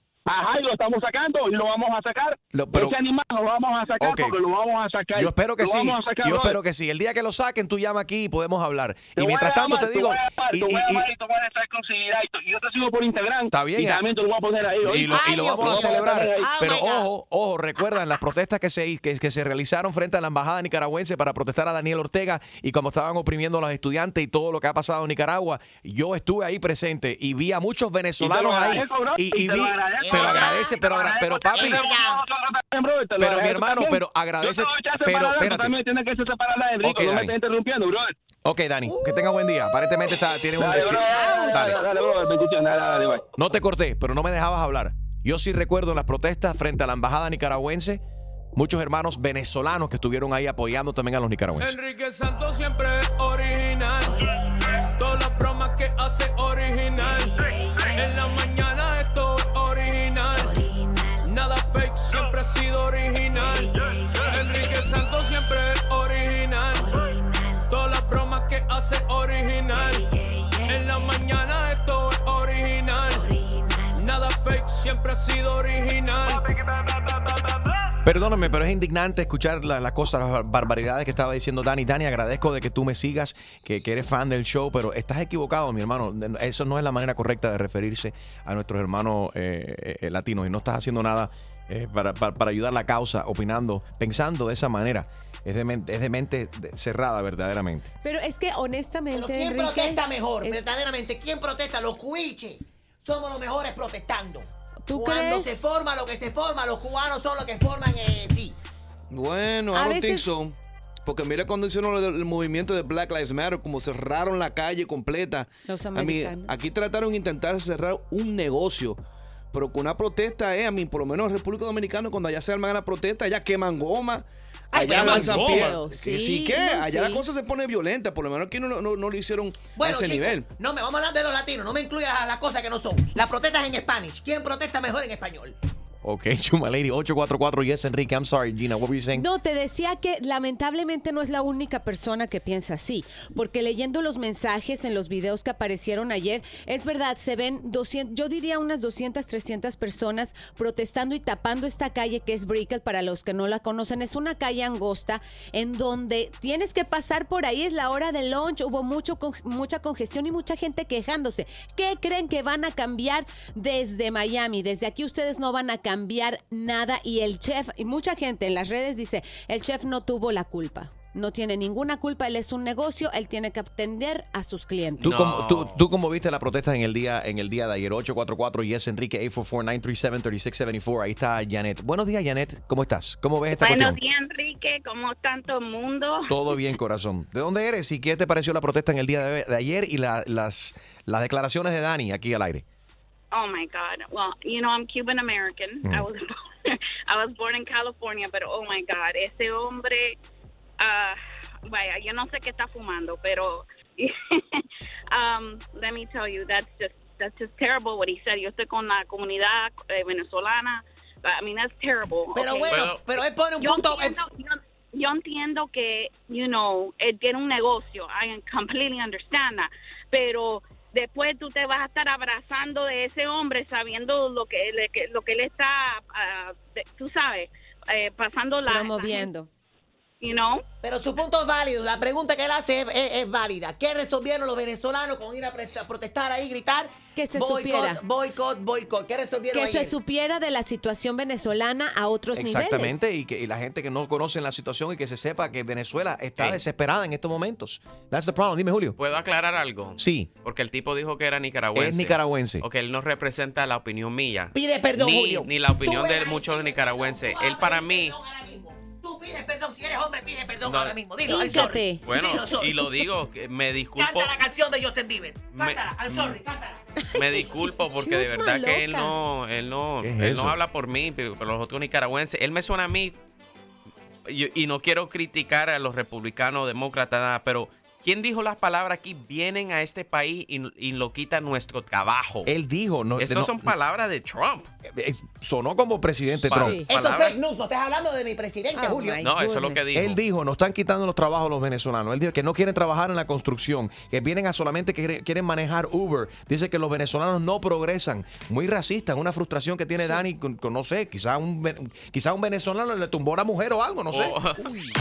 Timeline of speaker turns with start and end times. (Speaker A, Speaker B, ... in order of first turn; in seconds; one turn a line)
Speaker A: 0.3-6.6
Speaker B: 2.5-3.0
Speaker B: 4.0-4.4
Speaker B: 5.2-11.1
Speaker A: 9.2-16.5
Speaker B: 13.5-14.0
Speaker B: 14.8-31.8
Speaker C: 15.1-17.1
Speaker A: 28.2-38.1
Speaker C: 30.0-32.2
Speaker B: 33.2-35.8
Speaker B: 36.8-37.3
Speaker B: 38.5-41.8
Speaker C: 38.9-39.6
Speaker A: 40.6-43.2
Speaker C: 41.1-41.8
Speaker B: 43.4-48.0
Speaker B: 48.5-51.8
Speaker D: 51.6-60.6
Speaker D: 61.2-67.1
Speaker D: 67.7-70.1
Speaker D: 70.7-73.3
Speaker D: 73.9-76.4
Speaker A: 76.3-77.7
Speaker B: 78.0-97.9
Speaker E: 98.0-100.6
Speaker C: 99.1-108.5
Speaker E: 104.8-105.6
Speaker F: 109.1-119.0
Speaker E: 109.7-110.3
Speaker E: 115.7-116.5
Speaker F: 119.5-130.5
Speaker C: 124.7-125.4
Speaker E: 124.8-127.2
Speaker D: 125.0-125.7
Speaker C: 129.7-135.5
Speaker B: 136.0-139.3
Speaker E: 139.2-175.3
Speaker G: 175.0-175.8
Speaker B: 175.0-184.0
Speaker H: 183.6-186.6
Speaker B: 186.3-192.7
Speaker H: 193.3-200.2
Speaker H: 200.8-229.3
Speaker C: 212.3-214.2
Speaker G: 212.7-213.0
Speaker E: 228.7-229.5
Speaker H: 230.2-230.6
Speaker C: 230.8-239.9
Speaker E: 237.2-238.0
Speaker E: 239.5-243.0
Speaker B: 242.3-249.0
Speaker G: 249.0-258.2
Speaker B: 250.0-250.3
Speaker B: 251.8-252.6
Speaker C: 254.5-263.1
Speaker G: 260.6-264.4
Speaker E: 261.3-262.0
Speaker C: 264.0-266.8
Speaker G: 265.5-266.4
Speaker E: 267.1-269.1
Speaker G: 267.1-273.2
Speaker B: 270.0-270.6
Speaker G: 274.3-282.5
Speaker B: 282.5-283.7
Speaker G: 283.2-284.7
Speaker B: 284.9-286.8
Speaker G: 286.4-287.4
Speaker E: 286.5-286.9
Speaker C: 286.9-289.3
Speaker E: 288.8-289.8
Speaker G: 289.2-290.2
Speaker B: 289.9-304.4
Speaker G: 304.1-304.6